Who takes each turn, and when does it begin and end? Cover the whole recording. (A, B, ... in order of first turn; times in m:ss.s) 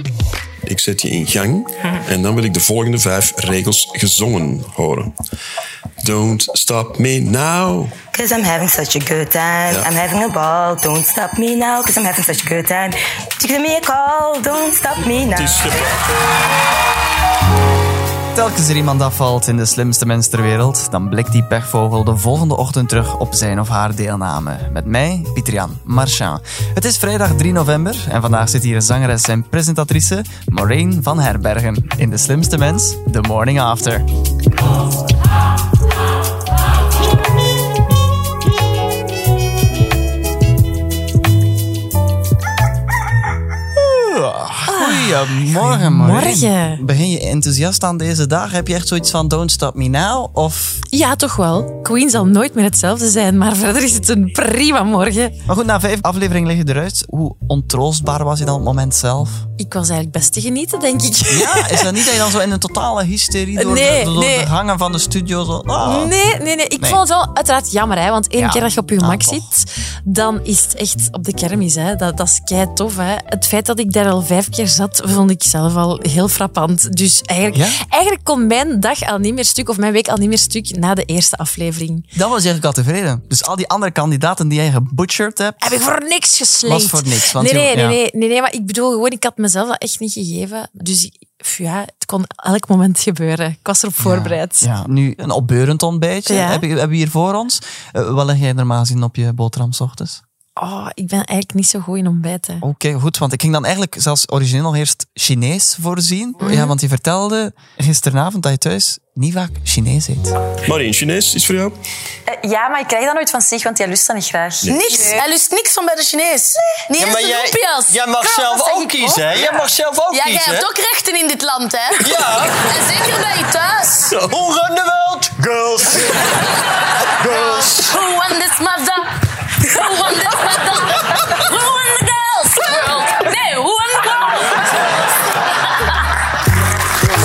0:00.7-0:05.1 A
0:06.0-0:08.0 A
0:08.1-0:15.7 B
0:15.3-0:16.0 A
0:18.3-0:34.0 C
0:43.7-0:50.8 C
0:44.7-0:46.8 D
0:50.9-0:55.4 D
0:55.5-0:59.4 C
0:59.6-1:02.0 D
1:01.3-1:06.1 C
1:03.6-1:04.5 D
1:05.8-1:22.0 D
1:06.8-1:07.0 C
1:08.4-1:09.5 C
1:17.5-1:17.8 C
1:22.1-1:25.8 C
1:25.6-1:34.7 D
1:26.6-1:28.0 C
1:34.0-1:40.2 C
1:36.2-1:36.6 D
1:40.6-1:42.6 D
1:42.6-1:50.4 C
1:46.4-1:46.7 D
1:50.6-1:51.7 A
1:52.3-1:55.3 D
1:54.6-1:55.0 A
1:54.7-1:58.0 E
1:57.0-2:00.7 F
1:58.2-1:59.6 D
2:00.1-2:02.1 E
2:02.0-2:02.6 F
2:02.6-2:04.1 E
2:04.1-2:06.1 F
2:07.2-2:07.8 F
2:07.8-2:09.0 E
2:09.6-2:14.4 E